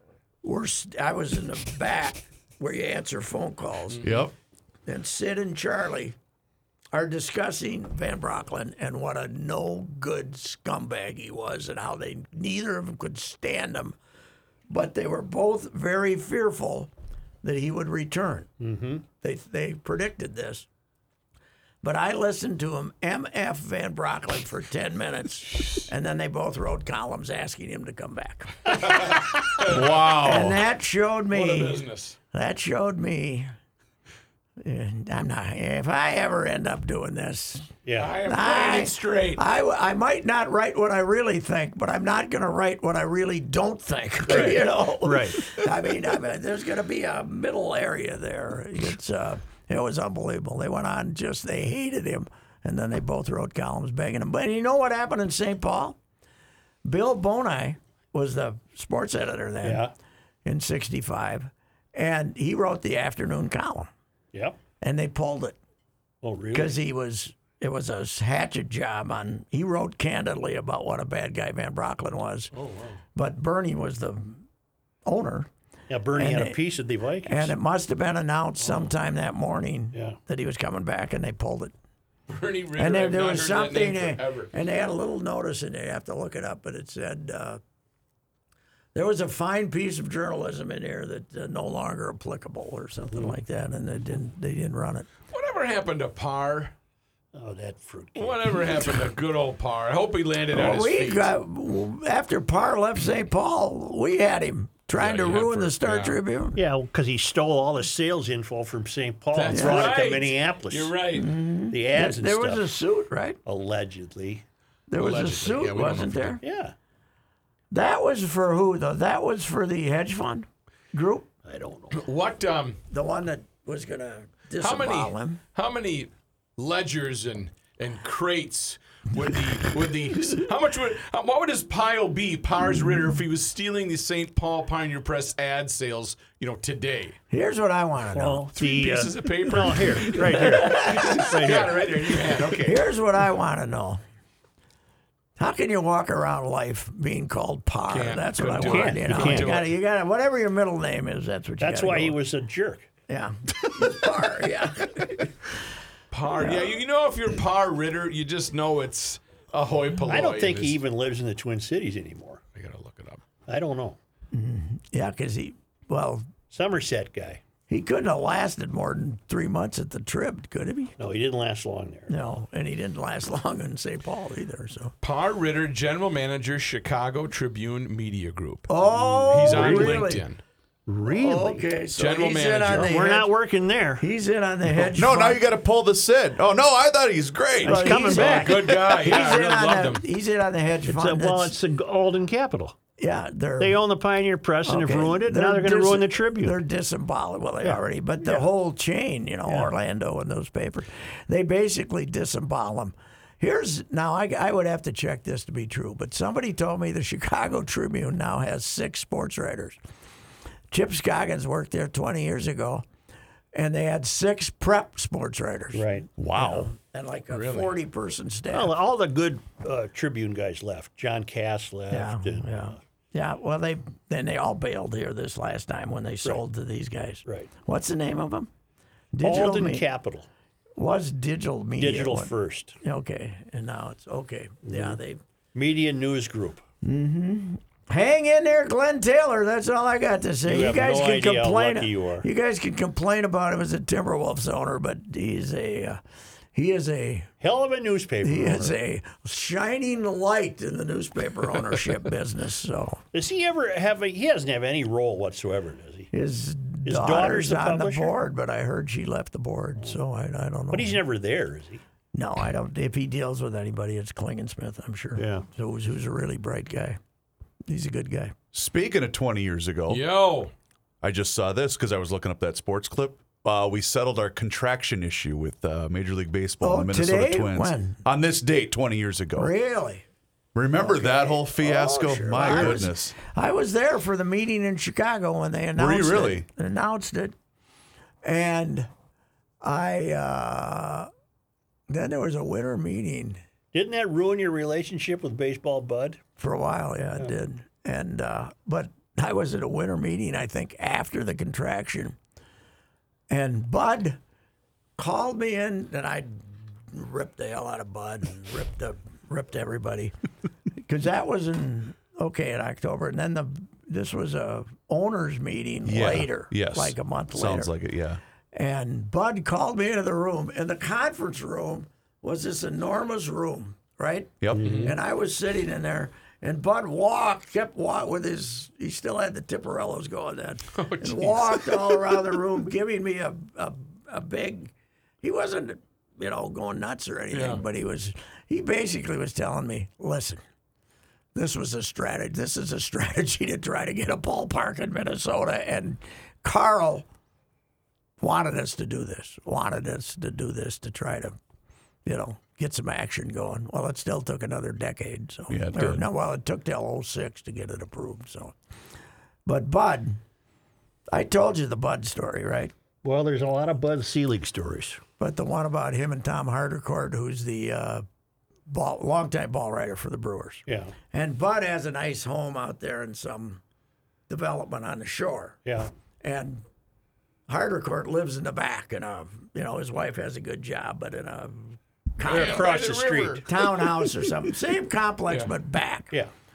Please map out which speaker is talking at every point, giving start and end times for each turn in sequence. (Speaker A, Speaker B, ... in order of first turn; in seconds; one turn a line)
Speaker A: 0.4-4.1
Speaker B: 4.0-4.3
Speaker A: 4.9-6.2
Speaker A: 6.9-14.0
Speaker A: 14.7-16.9
Speaker A: 17.4-18.5
Speaker C: 18.6-19.0
Speaker A: 19.2-20.7
Speaker A: 21.8-33.5
Speaker D: 28.8-30.6
Speaker D: 31.3-32.2
Speaker A: 34.6-56.0
Speaker C: 37.8-38.2
Speaker D: 38.0-39.4
Speaker C: 44.2-45.4
Speaker A: 56.9-59.9
Speaker C: 59.6-59.9
Speaker A: 60.5-63.9
Speaker A: 64.8-65.6
Speaker C: 66.2-66.8
Speaker A: 66.5-72.5
Speaker A: 73.2-74.4
Speaker A: 75.1-75.5
Speaker C: 75.9-77.5
Speaker A: 76.2-76.6
Speaker A: 77.2-81.7
Speaker C: 79.9-80.2
Speaker D: 82.3-84.5
Speaker A: 82.8-87.6
Speaker A: 89.0-95.1
Speaker D: 95.3-96.7
Speaker C: 97.3-98.9
Speaker D: 98.2-101.3
Speaker A: 100.5-106.6
Speaker D: 104.9-106.2
Speaker C: 106.5-111.0
Speaker D: 109.3-111.3
Speaker A: 109.5-110.0
Speaker A: 111.1-113.4
Speaker C: 111.7-112.7
Speaker C: 113.5-114.4
Speaker A: 114.9-116.4
Speaker D: 115.0-116.4
Speaker C: 116.4-116.7
Speaker A: 117.7-121.3
Speaker C: 121.5-122.0
Speaker D: 121.9-122.8
Speaker A: 122.9-125.4
Speaker D: 124.6-137.2
Speaker A: 132.6-133.2
Speaker A: 137.3-138.5
Speaker C: 138.1-141.9
Speaker D: 138.6-142.9
Speaker A: 140.1-141.2
Speaker A: 142.6-144.0
Speaker A: 145.4-152.2
Speaker D: 147.9-149.7
Speaker C: 148.6-149.6
Speaker C: 151.6-152.9
Speaker A: 153.1-155.3
Speaker D: 156.1-160.8
Speaker A: 156.4-156.8
Speaker C: 160.1-162.4
Speaker D: 162.5-163.3
Speaker C: 163.5-164.0
Speaker A: 164.3-166.3
Speaker C: 166.5-167.4
Speaker A: 167.7-170.9
Speaker C: 171.0-172.1
Speaker A: 172.1-174.9
Speaker D: 175.0-178.7
Speaker A: 178.7-180.2
Speaker C: 178.9-180.1
Speaker D: 179.3-180.4
Speaker C: 180.9-181.7
Speaker A: 181.1-183.4
Speaker D: 181.9-183.0
Speaker C: 182.7-184.0
Speaker A: 184.0-185.4
Speaker B: 184.9-188.1
Speaker C: 187.6-188.7
Speaker A: 187.7-191.6
Speaker D: 188.0-190.0
Speaker C: 190.9-192.8
Speaker A: 193.0-193.8
Speaker C: 193.6-196.6
Speaker A: 194.7-209.8
Speaker C: 197.6-198.5
Speaker C: 199.5-199.7
Speaker A: 210.7-212.8
Speaker A: 213.5-218.8
Speaker C: 215.7-216.1
Speaker B: 216.2-216.7
Speaker D: 217.3-217.7
Speaker C: 218.5-222.8
Speaker A: 221.9-228.5
Speaker A: 229.1-229.8
Speaker C: 229.2-230.3
Speaker A: 230.8-235.2
Speaker C: 231.8-232.8
Speaker C: 234.7-235.0
Speaker C: 235.6-236.6
Speaker A: 236.8-246.0
Speaker C: 240.4-242.3
Speaker A: 246.5-247.3
Speaker C: 247.4-248.8
Speaker A: 248.2-253.0
Speaker C: 253.1-256.1
Speaker A: 256.1-261.0
Speaker C: 256.9-258.1
Speaker C: 260.7-261.8
Speaker A: 262.1-267.0
Speaker C: 265.2-265.5
Speaker A: 267.7-268.3
Speaker B: 268.5-270.0
Speaker D: 269.9-270.5
Speaker B: 271.0-279.5
Speaker A: 276.6-278.0
Speaker A: 279.4-280.0
Speaker B: 280.6-283.2
Speaker A: 280.8-287.3
Speaker B: 285.8-286.5
Speaker A: 288.2-288.9
Speaker A: 289.6-291.1
Speaker A: 291.9-293.4
Speaker C: 293.7-296.2
Speaker A: 296.4-302.2
Speaker A: 303.3-304.2
Speaker A: 305.0-306.4
Speaker A: 306.9-310.1
Speaker A: 310.9-317.7
Speaker B: 315.9-318.2
Speaker A: 318.5-340.4
Speaker B: 324.4-324.9
Speaker C: 324.6-324.9
Speaker D: 324.6-324.9
Speaker D: 330.8-332.1
Speaker D: 337.3-337.6
Speaker A: 341.4-347.1
Speaker A: 348.2-351.4
Speaker A: 352.1-358.5
Speaker B: 355.5-356.1
Speaker A: 359.5-360.2
Speaker A: 361.1-362.7
Speaker C: 363.0-365.0
Speaker A: 365.2-368.1
Speaker A: 368.7-373.6
Speaker C: 370.7-370.9
Speaker A: 374.3-375.6
Speaker A: 376.2-376.6
Speaker A: 377.5-382.8
Speaker D: 382.3-383.4
Speaker C: 382.3-383.4
Speaker A: 383.5-386.1